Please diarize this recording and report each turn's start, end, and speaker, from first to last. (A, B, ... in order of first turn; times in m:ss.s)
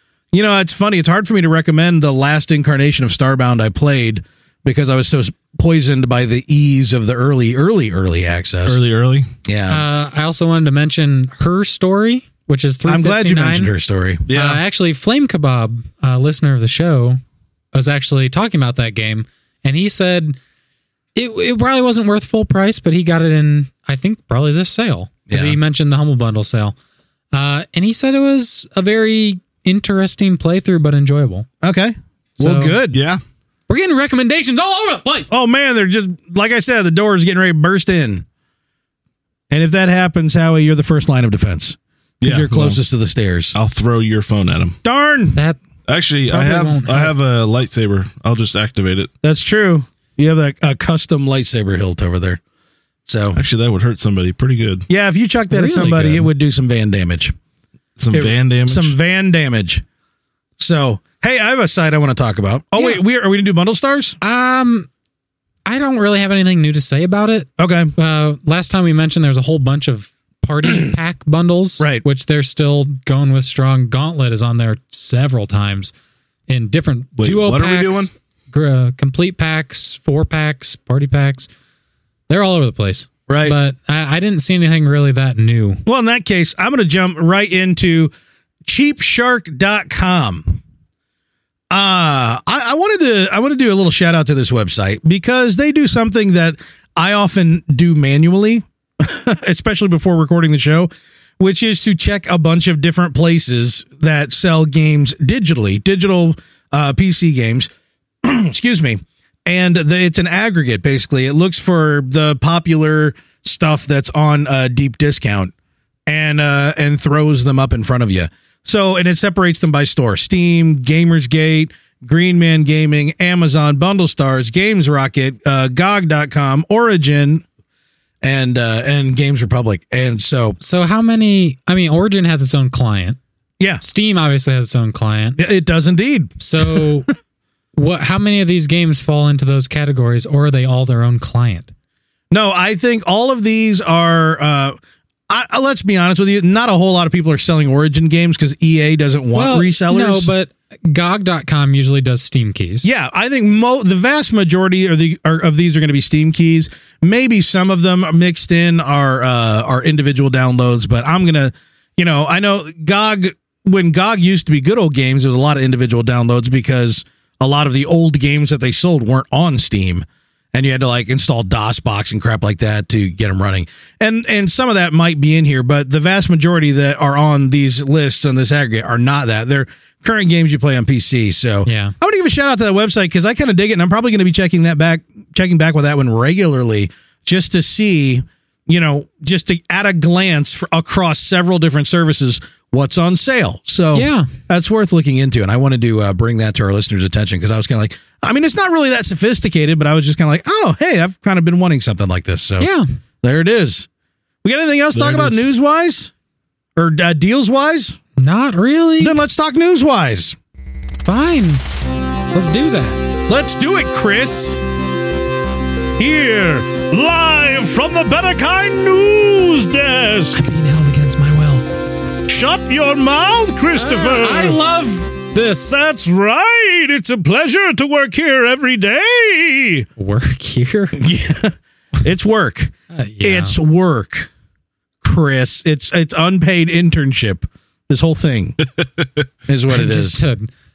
0:00.3-0:08.8 A
0:08.6-0:09.3 B
0:09.5-0:09.8 A
0:09.7-0:13.7 C
0:12.9-0:14.2 A
0:14.3-0:14.6 B
0:14.3-0:17.2 C
0:17.7-0:20.4 C
0:21.2-0:26.8 C
0:25.3-0:25.6 A
0:27.3-0:31.5 C
0:31.6-0:33.0 A
0:32.4-0:32.8 C
0:32.9-0:33.2 B
0:33.7-0:35.3 C
0:35.3-0:38.2 A
0:39.5-0:43.6 A
0:42.2-0:42.8 B
0:43.5-0:44.8 B
0:44.8-0:45.4 A
0:45.9-0:49.1 B
0:46.3-0:47.1 C
0:49.2-0:52.4 A
0:53.1-0:53.4 A
0:53.4-0:54.9 B
0:54.9-0:57.3 A
0:55.5-0:56.3 C
0:58.0-0:59.0 B
0:58.1-0:59.8 A
1:00.6-1:04.2 A
1:02.8-1:03.0 C
1:04.2-1:04.9 C
1:05.6-1:15.9 C
1:07.6-1:08.0 A
1:16.5-1:21.5 C
1:17.2-1:18.1 B
1:22.3-1:25.8 C
1:23.3-1:23.5 A
1:25.9-1:28.1 A
1:28.7-1:30.6 A
1:31.7-1:47.7 A
1:48.2-1:55.5 A
1:56.1-2:07.4 A
2:08.2-2:10.6 A
2:10.6-2:13.2 C
2:13.8-2:15.4 C
2:15.4-2:16.9 A
2:16.4-2:17.1 C
2:17.8-2:21.7 C
2:22.3-2:24.8 A
2:25.3-2:30.3 A
2:29.3-2:32.9 C
2:32.8-3:22.7 A
3:01.6-3:02.0 C
3:13.9-3:14.3 C
3:22.6-3:22.8 C
3:23.2-3:23.9 A
3:24.4-3:26.1 A
3:25.0-3:25.4 C
3:26.8-3:28.0 A
3:28.2-3:29.2 C
3:29.0-3:30.4 A
3:31.0-3:31.6 C
3:32.3-3:33.0 C
3:33.3-3:34.6 A
3:36.0-3:40.4 A
3:40.3-3:41.7 C
3:42.3-3:44.6 A
3:43.8-3:45.8 C
3:45.7-3:49.9 A
3:50.0-3:51.0 C
3:51.0-3:52.7 A
3:52.9-3:53.6 C
3:53.2-3:54.3 A
3:55.0-3:58.6 A
3:58.8-3:59.2 B
3:59.5-4:00.2 A
3:59.7-4:00.5 C